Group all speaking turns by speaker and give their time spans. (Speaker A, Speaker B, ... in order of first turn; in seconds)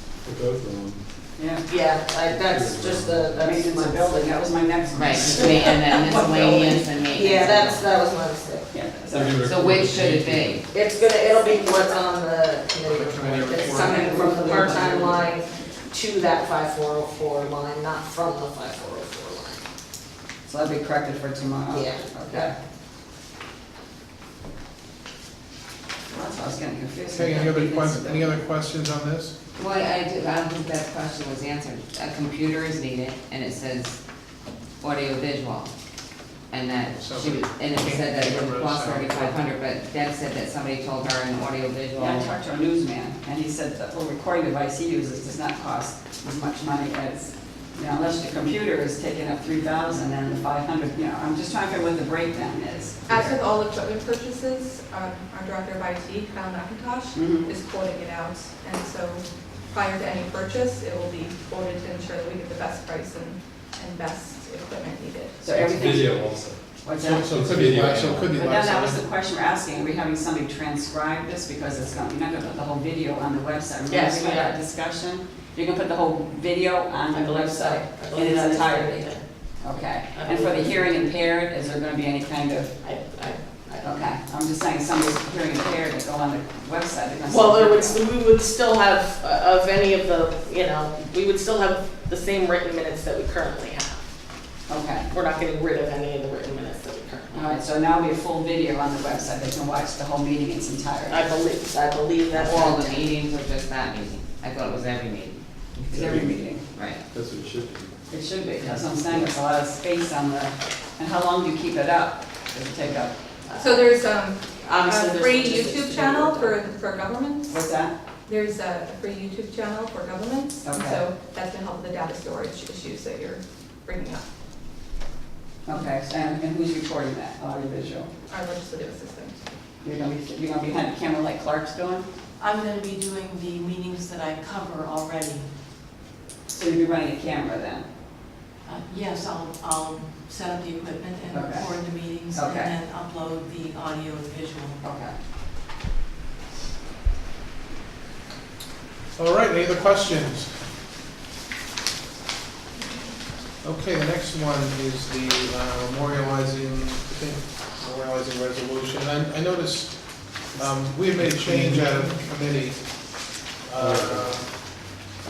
Speaker A: 0.2-1.1, 2.2-3.5, 9.1-10.6, 65.5-68.3, 105.9-106.5, 107.1-107.9, 108.9-109.3, 160.6-162.2, 163.8-164.3
Speaker B: 1.4-1.6, 3.4-5.9, 8.7-9.4, 13.7-15.2, 20.4-22.6, 26.1-28.4, 42.0-53.4, 57.1-57.5, 65.4-66.2, 66.8-67.6, 68.3-82.7, 83.8-88.0, 94.7-95.1, 97.3-101.3, 105.9-106.6, 108.1-113.1, 117.5-117.9, 120.6-121.0, 125.7-128.1, 129.8-132.1, 136.5-137.9, 141.3-141.8, 142.3-142.8, 144.8-145.1
Speaker C: 1.6-4.4, 5.3-8.7, 10.7-19.6, 21.7-22.5, 73.9-74.6, 77.1-79.2, 80.1-80.9, 82.8-84.0, 87.3-94.0, 95.1-97.4, 101.1-103.0, 113.5-113.9, 114.6-116.5
Speaker D: 4.9-7.9, 9.4-10.6, 14.1-15.2, 29.6-34.0, 34.8-35.7, 36.5-42.3, 102.3-106.1, 106.7-107.0
Speaker E: 12.8-14.4, 27.1-29.4, 36.9-39.5, 67.0-69.0, 149.2-150.6, 153.6-164.8
Speaker F: 53.1-65.4, 113.6-117.6, 118.3-124.2, 128.3-129.4
Speaker G: 132.4-135.5, 138.7-144.8